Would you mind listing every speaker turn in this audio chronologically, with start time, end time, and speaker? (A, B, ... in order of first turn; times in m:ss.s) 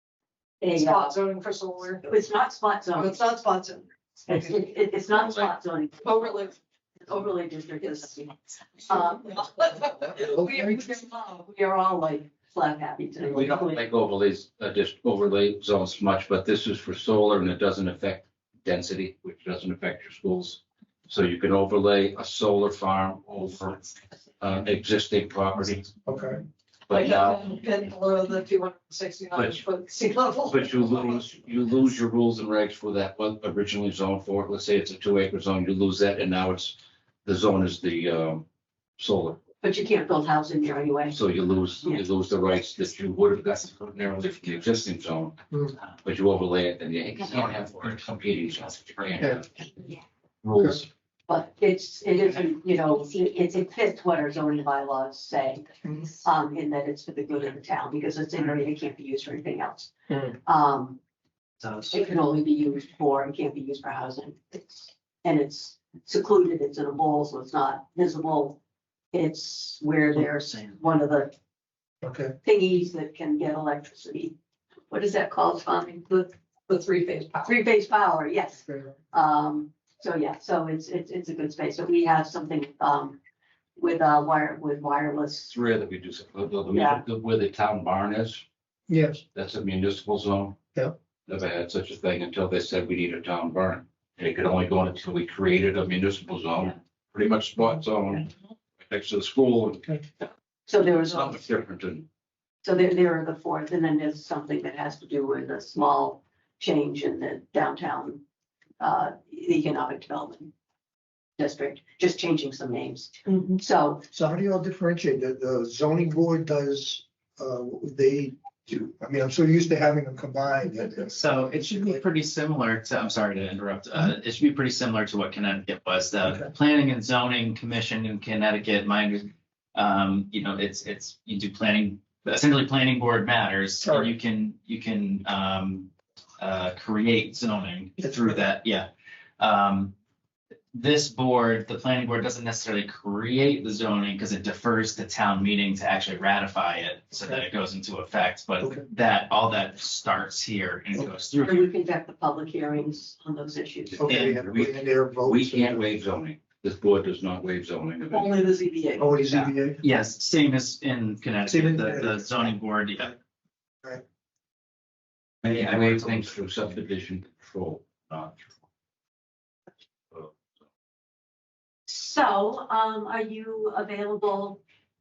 0:00.6-0:01.2 A
0:00.8-0:02.0 B
0:02.0-0:03.2 A
0:02.9-0:04.7 B
0:04.3-0:06.2 A
0:06.0-0:06.6 B
0:07.0-0:13.8 A
0:08.9-0:11.2 B
0:10.1-0:10.8 C
0:13.3-0:25.9 D
0:26.0-0:26.4 C
0:26.9-0:27.5 D
0:26.9-0:30.8 B
0:29.3-0:29.6 D
0:30.5-0:38.4 D
0:39.0-0:39.4 D
0:39.6-0:41.2 A
0:41.1-0:45.4 D
0:46.0-0:49.5 D
0:50.4-0:50.9 D
0:51.3-0:59.9 A
1:00.1-1:00.4 C
1:00.4-1:01.0 A
1:01.6-1:01.9 E
1:01.9-1:08.6 A
1:09.1-1:11.3 A
1:12.0-1:12.3 C
1:12.4-1:14.4 A
1:14.9-1:17.6 B
1:14.9-1:15.9 A
1:17.4-1:23.2 A
1:18.6-1:18.9 C
1:23.8-1:25.5 A
1:25.5-1:28.4 D
1:26.7-1:27.0 A
1:28.9-1:29.2 C
1:29.3-1:30.6 D
1:31.3-1:38.3 D
1:38.8-1:39.9 D
1:40.2-1:41.4 A
1:41.0-1:42.0 D
1:42.6-1:48.2 A
1:48.8-1:50.5 A
1:51.4-1:54.0 A
1:53.2-1:53.6 B
1:54.1-2:02.0 C
2:01.0-2:19.9 E
2:13.8-2:14.1 C
2:20.7-2:31.7 E
2:31.4-2:34.1 A
2:34.0-2:35.8 C
2:34.0-2:34.4 E
2:34.0-2:38.4 D
2:38.1-2:39.5 A
2:39.0-2:39.8 C
2:39.8-2:43.1 E
2:41.5-2:42.5 C
2:45.4-2:48.5 D
2:45.4-2:46.3 E
2:50.1-2:50.4 D
2:51.9-2:54.6 A